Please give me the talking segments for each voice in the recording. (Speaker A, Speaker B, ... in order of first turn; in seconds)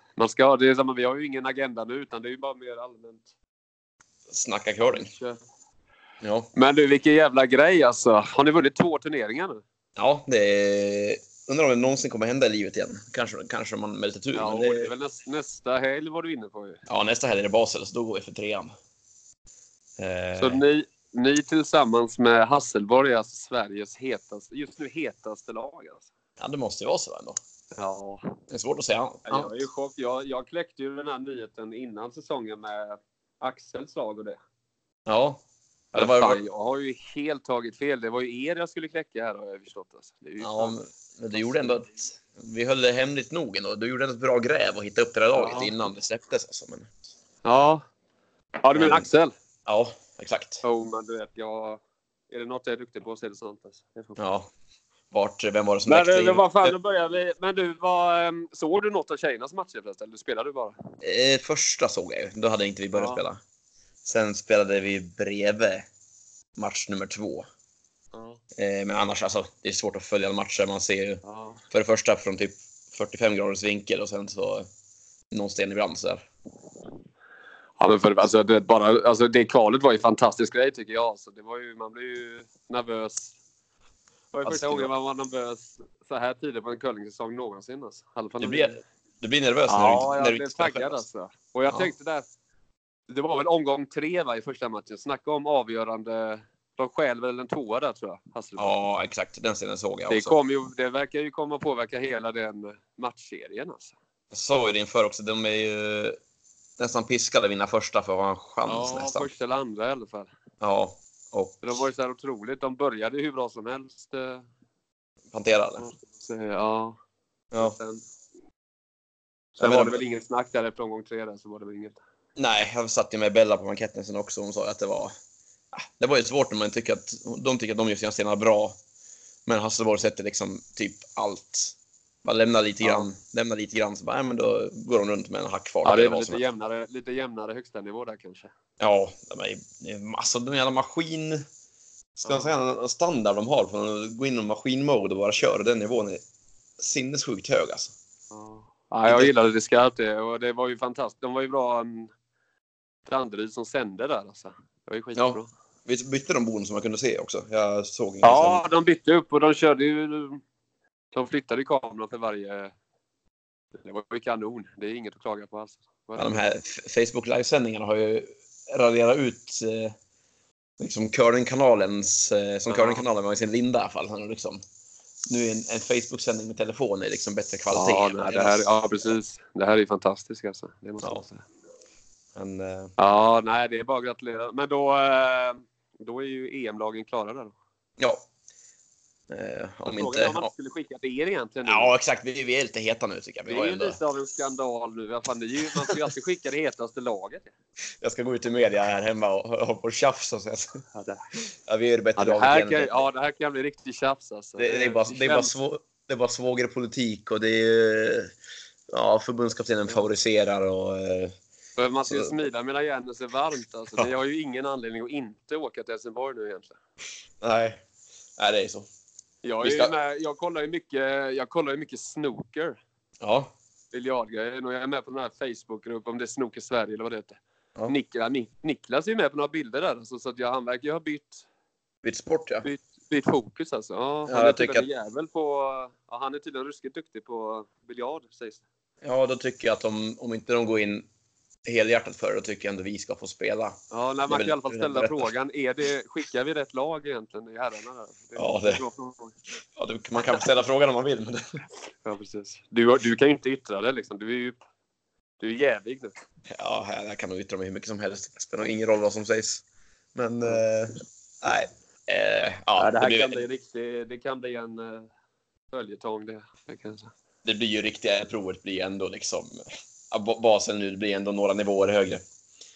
Speaker A: 0.2-3.3, 4.9-5.4, 6.5-9.6, 14.3-16.8, 20.4-26.1, 27.7-28.3, 29.3-34.4, 36.0-40.8, 41.4-41.7, 45.4-45.7, 47.4-47.8, 48.6-49.3, 50.6-54.2, 55.9-60.7, 62.9-63.2, 68.1-68.4, 71.2-71.6, 77.8-83.3, 84.3-88.8, 89.7-92.3, 93.1-98.8, 100.1-103.9, 108.7-110.3, 111.6-114.5, 115.8-117.0, 117.6-118.0, 119.6-122.0, 132.8-133.1, 135.8-138.5, 142.3-142.5, 148.3-152.1, 153.1-155.5, 158.2-160.4, 161.1-162.7, 163.8-166.4, 172.7-173.0, 177.7-181.4, 183.0-187.6, 189.9-191.9, 193.5-197.5, 200.9-201.2, 202.2-205.5, 211.8-216.8, 219.4-222.8, 223.9-231.4, 232.6-238.6, 243.9-249.3, 252.0-254.6, 255.4-256.1, 262.8-265.1, 265.7-267.1
Speaker B: 4.3-5.1, 6.2-6.5, 10.0-14.9, 16.9-18.7, 20.0-20.6, 26.4-27.4, 28.5-29.6, 35.1-35.4, 35.9-36.4, 40.4-46.9, 48.7-49.1, 49.7-50.6, 54.2-54.5, 55.1-56.8, 61.0-63.4, 64.0-65.9, 66.6-67.5, 68.6-74.7, 75.3-76.2, 84.4-84.9, 88.4-91.0, 98.6-100.4, 104.3-106.2, 106.8-109.3, 110.6-111.8, 115.3-115.9, 117.5-117.8, 119.6-120.0, 122.4-125.2, 125.7-128.8, 129.5-136.4, 138.8-141.5, 142.2-146.2, 146.8-147.9, 149.1-149.3, 155.2-158.7, 166.2-170.0, 170.8-174.6, 175.3-179.1, 182.4-182.9, 189.3-190.5, 191.7-194.0, 198.0-200.8, 201.7-203.1, 204.6-208.3, 208.9-211.3, 212.1-212.4, 217.4-217.8, 218.4-218.9, 219.6-219.9, 223.2-223.5, 232.0-232.7, 234.3-234.9, 239.0-241.1, 241.7-245.3, 248.4-248.8, 249.8-251.6, 256.5-259.6, 260.1-263.5, 267.4-272.2